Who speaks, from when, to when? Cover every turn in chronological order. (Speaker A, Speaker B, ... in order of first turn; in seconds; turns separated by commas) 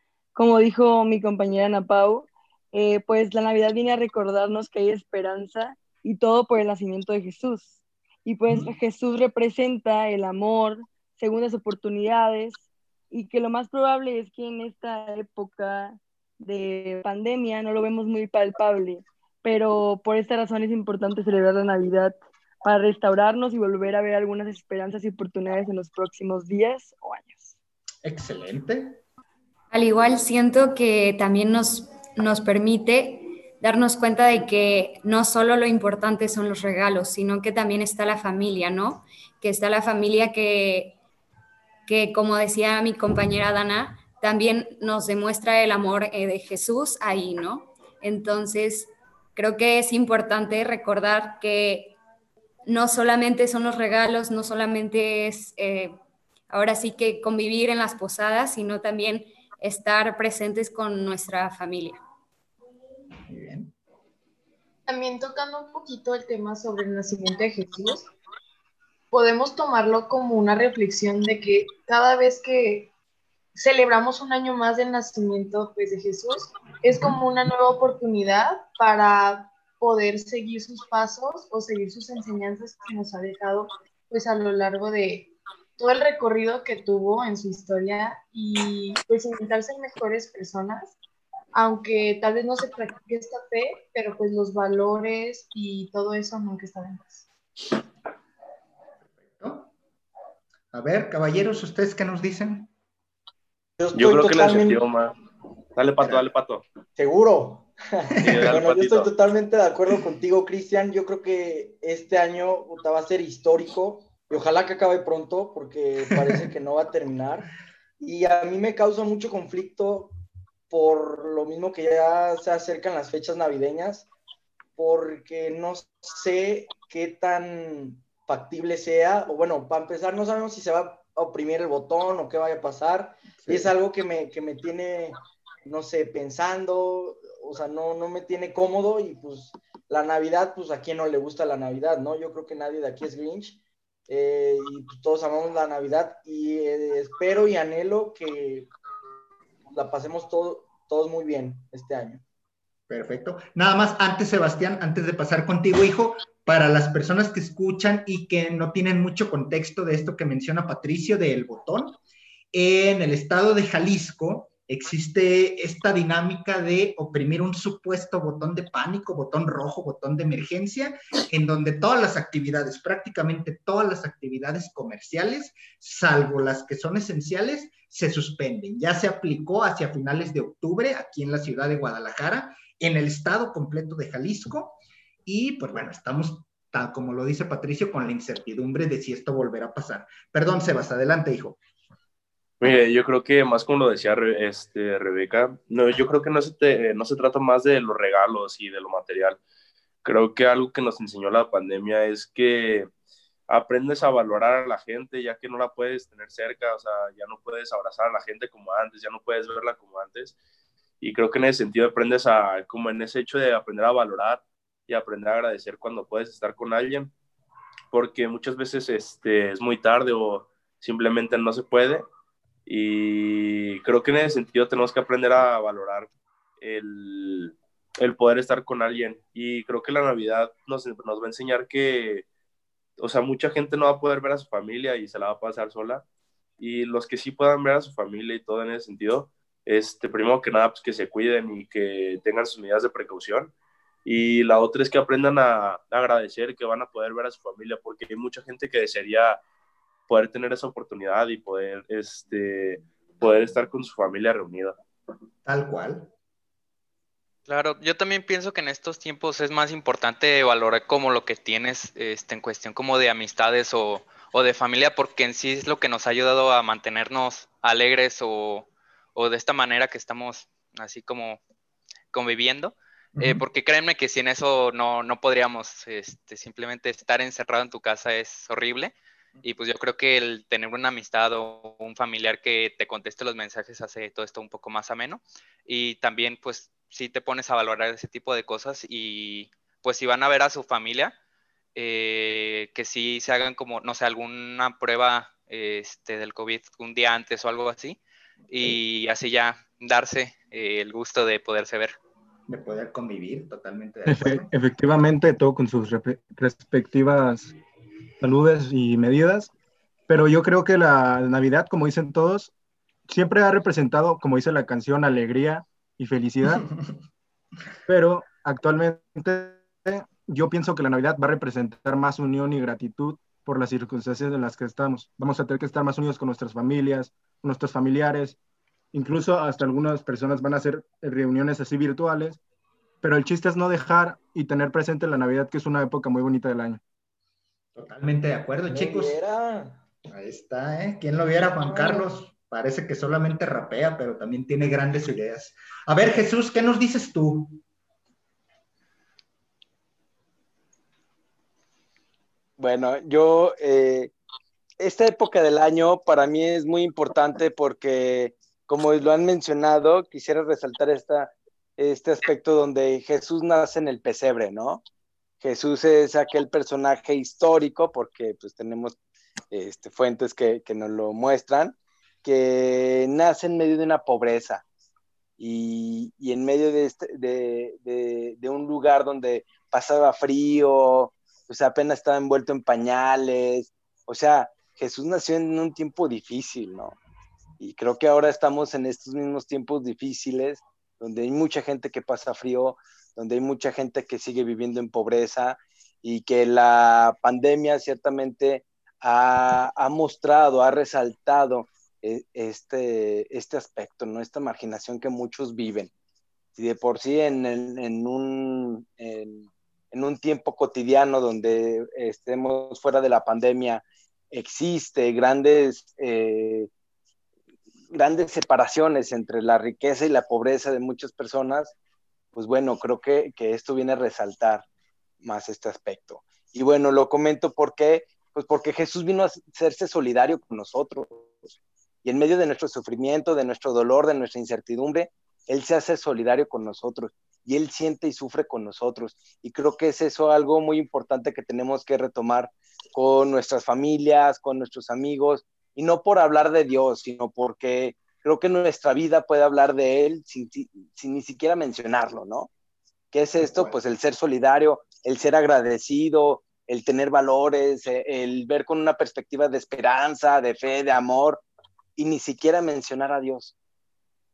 Speaker A: 0.3-27.5, Speaker B: 28.0-29.0, Speaker C: 29.7-41.0, Speaker C: 41.9-52.0, Speaker C: 52.6-56.0, Speaker C: 56.5-62.0, Speaker B: 63.3-63.7, Speaker D: 64.9-68.1, Speaker D: 69.1-72.9, Speaker D: 73.5-91.0, Speaker D: 91.5-97.3, Speaker B: 99.2-99.7, Speaker B: 100.7-102.7, Speaker E: 103.8-104.8, Speaker F: 103.9-105.1, Speaker F: 105.8-106.6, Speaker B: 106.0-106.3, Speaker E: 107.0-120.2, Speaker B: 108.2-108.4, Speaker F: 108.2-109.1, Speaker E: 120.7-124.1, Speaker E: 124.8-148.7, Speaker B: 133.4-133.7, Speaker E: 149.7-152.2, Speaker B: 152.9-162.0, Speaker B: 162.5-191.6, Speaker F: 192.6-199.4, Speaker F: 200.1-202.9, Speaker F: 203.5-210.4, Speaker F: 211.0-217.1, Speaker F: 217.9-222.0, Speaker F: 222.7-226.1, Speaker F: 226.6-232.3, Speaker F: 233.0-236.0, Speaker F: 236.6-243.5, Speaker F: 244.1-249.4, Speaker F: 250.1-254.7, Speaker B: 255.4-256.1, Speaker G: 257.5-271.4, Speaker G: 272.1-291.1, Speaker B: 273.2-273.4, Speaker G: 291.8-298.0, Speaker G: 298.5-302.0, Speaker B: 298.5-298.8, Speaker B: 302.5-304.5, Speaker H: 304.1-307.5, Speaker H: 308.2-309.5, Speaker H: 310.1-312.5, Speaker H: 313.1-316.7, Speaker H: 317.9-328.4, Speaker H: 328.9-332.4, Speaker H: 333.0-336.8, Speaker B: 337.8-339.2, Speaker E: 338.7-339.8, Speaker B: 340.1-347.6, Speaker I: 352.6-354.1, Speaker I: 354.8-364.8, Speaker I: 365.4-369.0, Speaker I: 369.5-374.6, Speaker I: 375.4-387.0, Speaker I: 387.6-405.9, Speaker I: 406.6-416.7, Speaker I: 417.9-421.7, Speaker I: 422.3-424.6, Speaker I: 425.2-452.5, Speaker I: 453.1-461.4, Speaker B: 453.4-453.8, Speaker I: 462.0-463.5